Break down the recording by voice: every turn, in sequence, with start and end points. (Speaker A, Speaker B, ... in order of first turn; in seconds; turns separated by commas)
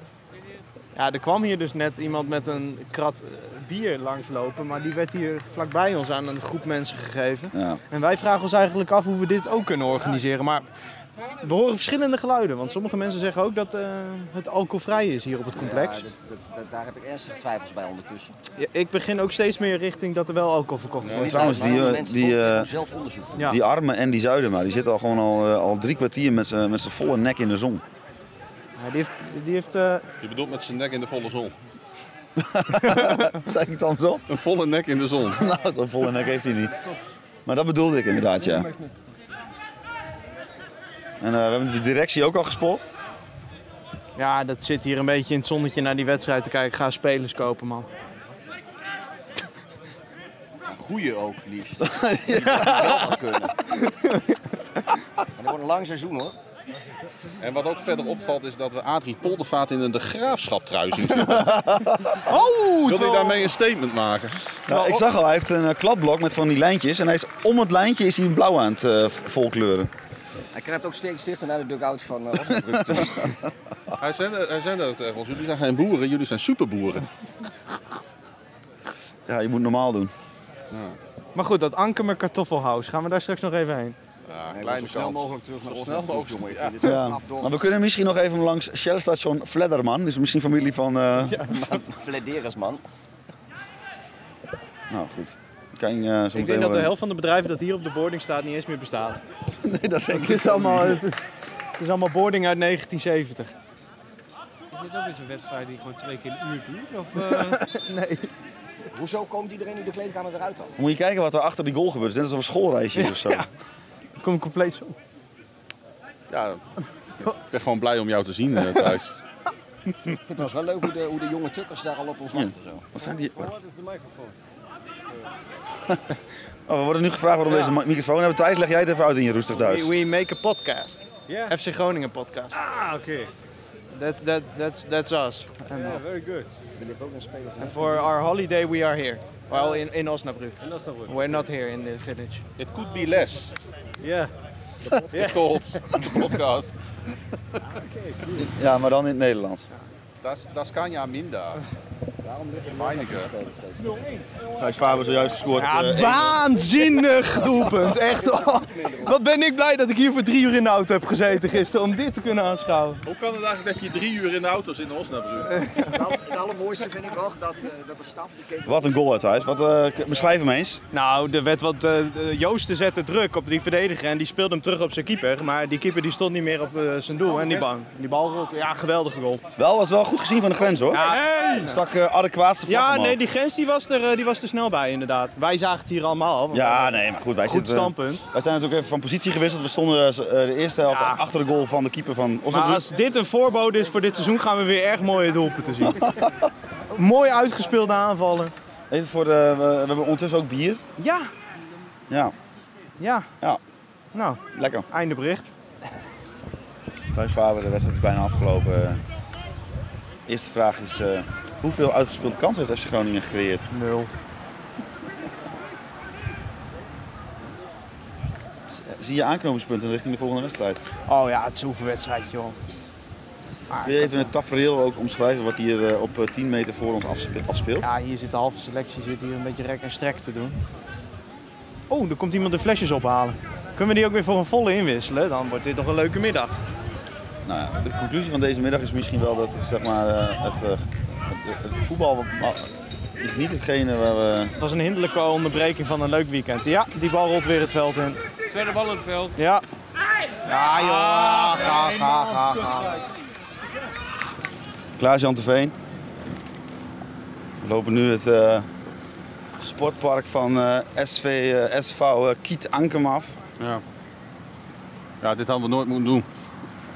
Speaker A: 0.9-10.7, Speaker B: 7.5-7.8, Speaker A: 11.4-16.0, Speaker C: 15.5-18.4, Speaker A: 18.6-21.6, Speaker D: 21.0-21.5, Speaker C: 21.1-23.4, Speaker B: 21.2-22.7, Speaker B: 23.4-27.8, Speaker A: 28.8-30.1, Speaker D: 30.2-31.5, Speaker B: 32.4-34.3, Speaker D: 34.3-35.5, Speaker B: 35.4-36.7, Speaker B: 37.5-38.7, Speaker B: 41.2-42.9, Speaker A: 44.2-47.9, Speaker C: 50.7-53.6, Speaker B: 51.8-53.0, Speaker A: 52.5-53.0, Speaker A: 53.8-54.3, Speaker C: 55.4-56.4, Speaker D: 57.4-61.5, Speaker A: 62.1-63.5, Speaker D: 62.7-64.6, Speaker B: 64.7-69.9, Speaker A: 64.7-65.0, Speaker C: 70.5-73.3, Speaker B: 72.6-73.3, Speaker D: 74.0-77.1, Speaker B: 79.3-80.1, Speaker D: 80.7-81.0, Speaker A: 81.3-84.0, Speaker D: 84.3-86.9, Speaker C: 84.5-87.6, Speaker B: 86.8-91.8, Speaker C: 91.6-92.8, Speaker B: 94.9-96.9, Speaker A: 96.3-99.2, Speaker B: 99.6-101.0, Speaker A: 100.1-101.2, Speaker A: 101.8-103.5, Speaker A: 104.7-108.3, Speaker C: 108.9-110.8, Speaker B: 110.8-113.5, Speaker A: 113.0-113.5, Speaker A: 114.2-115.0, Speaker D: 116.3-116.6, Speaker D: 117.2-119.1, Speaker C: 120.3-122.9, Speaker B: 122.3-123.5, Speaker E: 123.1-124.4, Speaker B: 126.7-129.9, Speaker A: 129.6-132.7, Speaker E: 131.3-131.6, Speaker E: 132.5-133.3, Speaker A: 133.9-136.0, Speaker E: 135.7-136.5, Speaker C: 136.8-138.1, Speaker A: 137.6-142.4, Speaker E: 140.6-141.4, Speaker D: 142.6-143.6, Speaker E: 144.0-144.3, Speaker C: 144.8-145.4, Speaker D: 145.1-146.7, Speaker E: 145.2-145.4, Speaker B: 148.3-149.7, Speaker D: 150.2-151.6, Speaker C: 152.2-154.0, Speaker D: 152.7-153.3, Speaker B: 154.5-156.4, Speaker A: 155.6-163.0, Speaker C: 158.0-159.1, Speaker D: 163.0-165.8, Speaker C: 165.8-168.9, Speaker B: 168.7-170.8, Speaker A: 170.9-179.4, Speaker B: 179.6-183.2, Speaker A: 180.9-181.8, Speaker A: 182.7-188.2, Speaker B: 186.5-192.9, Speaker A: 190.9-191.2, Speaker A: 192.5-196.1, Speaker B: 195.8-196.5, Speaker A: 196.9-198.5, Speaker B: 198.9-200.8, Speaker A: 201.0-201.3, Speaker A: 203.0-203.3, Speaker A: 204.1-205.5, Speaker B: 204.5-204.9, Speaker B: 207.1-209.0, Speaker B: 210.3-213.7, Speaker A: 213.7-214.1, Speaker B: 218.7-220.8, Speaker A: 221.1-222.6, Speaker A: 223.7-224.3, Speaker B: 223.8-227.9, Speaker A: 227.8-230.6, Speaker A: 231.9-236.6, Speaker B: 237.4-244.6, Speaker A: 244.6-248.2, Speaker D: 248.6-249.2, Speaker A: 249.2-249.6, Speaker A: 250.4-253.1, Speaker B: 255.0-255.8, Speaker B: 257.6-258.7, Speaker B: 259.6-263.4, Speaker D: 265.2-266.3